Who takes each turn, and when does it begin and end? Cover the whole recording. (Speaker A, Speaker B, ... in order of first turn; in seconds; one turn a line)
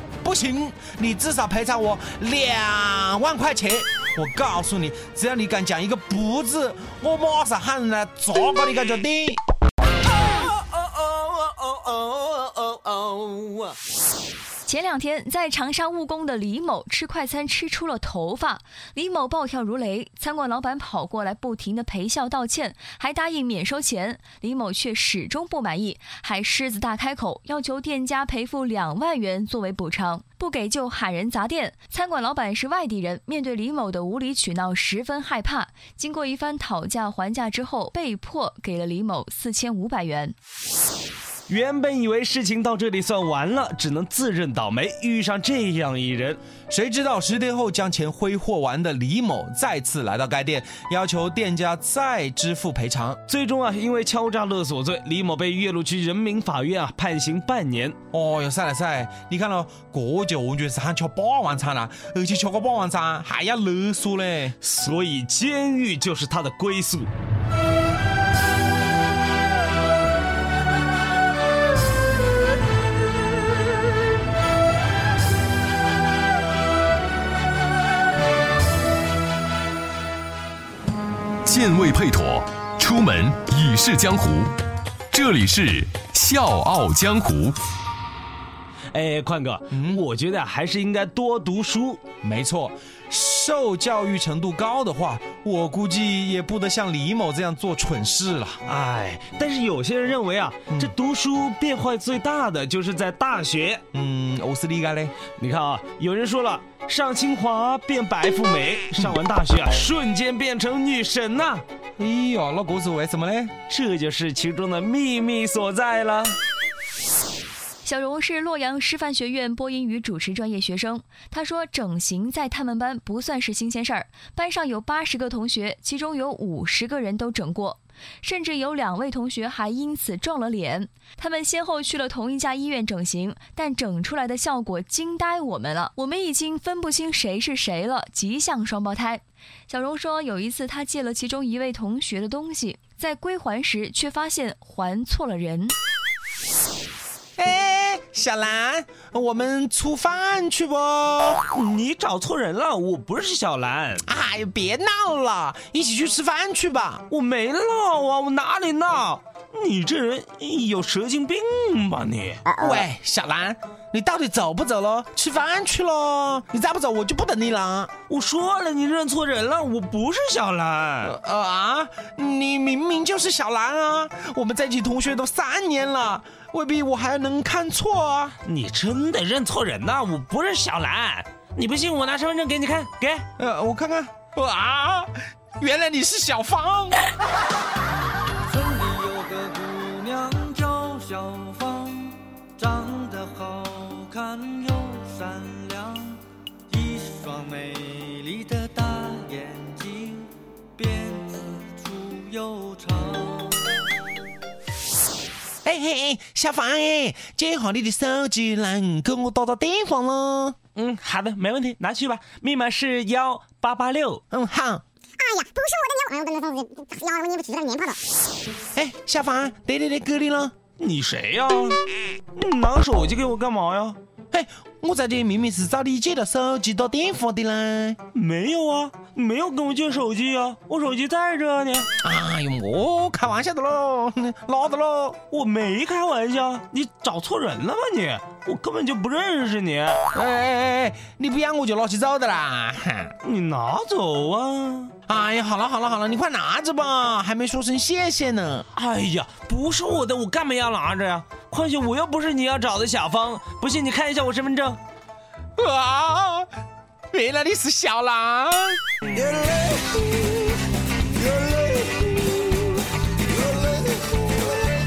Speaker A: 0.2-9.4
Speaker B: 10.2-13.7
Speaker C: 14.7-40.3
Speaker B: 41.5-46.4
Speaker A: 46.7-53.2
Speaker B: 53.3-58.0
Speaker A: 58.1-64.5
Speaker B: 64.6-67.1
Speaker D: 81.4-84.5
Speaker D: 85.1-87.6
Speaker B: 88.9-92.0
Speaker A: 89.7-90.0
Speaker A: 92.2-98.6
Speaker B: 98.6-103.8
Speaker A: 103.9-105.1
Speaker B: 105.4-111.6
Speaker A: 112.0-113.5
Speaker B: 113.7-116.3
Speaker C: 117.8-145.7
Speaker A: 147.4-151.4
Speaker B: 151.5-154.0
Speaker A: 154.0-157.0
Speaker B: 157.1-162.4
Speaker A: 162.5-167.9
Speaker B: 168.1-171.1
Speaker A: 171.0-178.3
Speaker B: 178.4-183.2
Speaker A: 183.4-187.0
Speaker E: 188.5-196.2
Speaker E: 196.7-203.6
Speaker A: 205.6-210.6
Speaker B: 210.8-214.2
Speaker A: 214.3-214.8
Speaker F: 215.2-218.0
Speaker A: 218.7-220.5
Speaker B: 220.8-221.8
Speaker B: 222.3-224.0
Speaker A: 224.3-228.0
Speaker B: 228.1-231.9
Speaker A: 232.0-235.2
Speaker B: 235.3-240.0
Speaker A: 240.1-243.1
Speaker B: 243.2-244.9
Speaker A: 245.1-248.7
Speaker B: 248.7-254.8
Speaker A: 255.6-256.5
Speaker A: 257.1-258.8